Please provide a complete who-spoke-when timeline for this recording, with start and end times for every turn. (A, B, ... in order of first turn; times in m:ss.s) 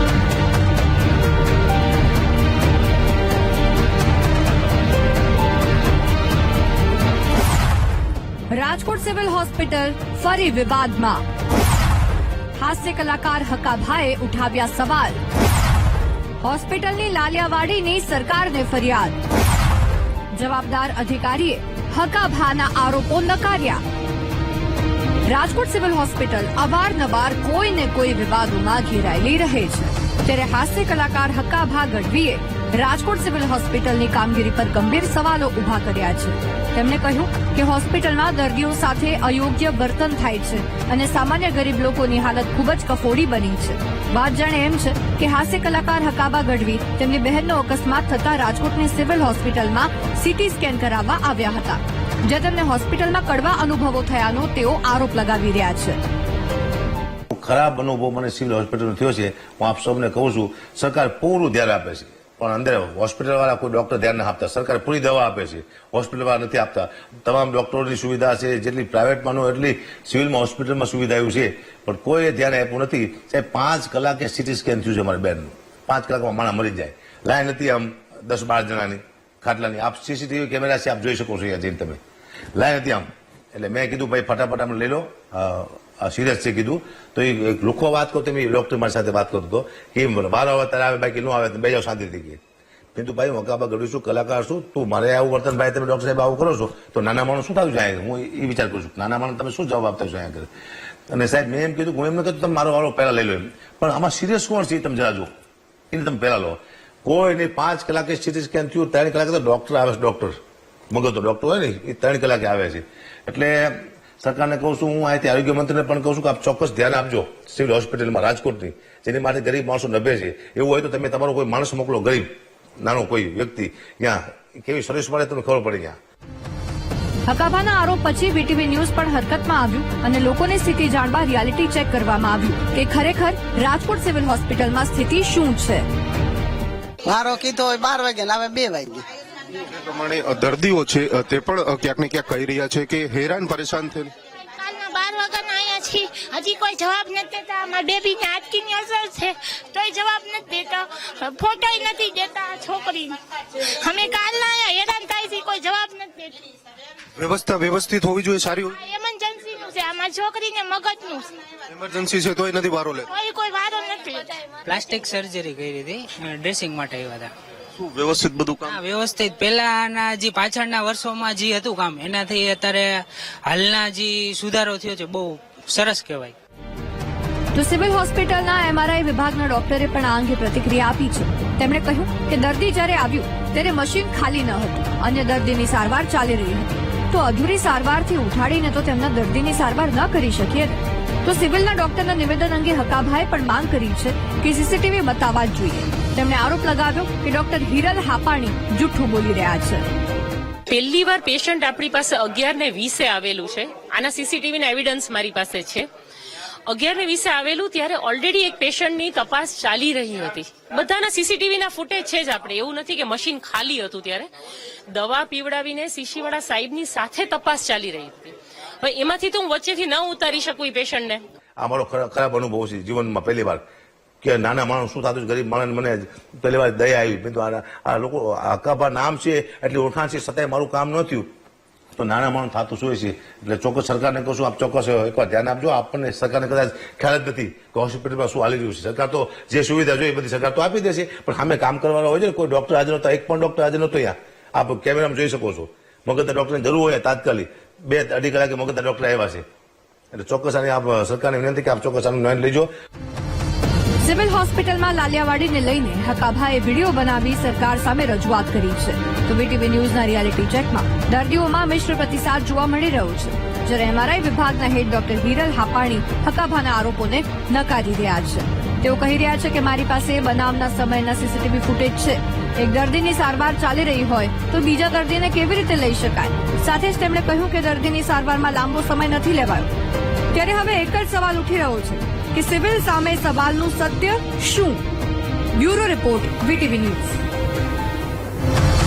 0:08.5-0:11.2 A
0:12.6-0:15.2 A
0:16.4-0:19.2 A
0:20.3-0:23.8 A
0:25.3-0:56.0 A
0:57.3-1:22.0 B
1:22.6-1:32.4 B
1:33.0-1:40.5 B
1:41.1-1:45.3 B
1:45.9-1:50.4 B
1:50.9-2:06.0 B
2:07.3-2:15.9 A
2:17.1-2:19.0 C
2:19.6-2:24.1 D
2:24.6-2:33.2 E
2:33.8-2:36.4 E
2:37.2-2:38.8 D
2:38.8-2:41.3 E
2:41.7-2:43.1 D
2:43.1-2:44.3 E
2:44.6-2:47.3 F
2:47.8-2:48.8 D
2:48.6-2:56.4 F
2:57.5-3:19.9 A
3:20.7-3:25.9 G
3:26.7-3:34.3 G
3:34.9-3:41.2 G
3:41.6-3:43.6 B
3:44.2-3:51.3 B
3:52.0-4:09.4 B
4:10.1-4:12.7 B
4:14.0-4:39.7 A
4:40.3-4:44.8 A
4:45.5-4:47.2 A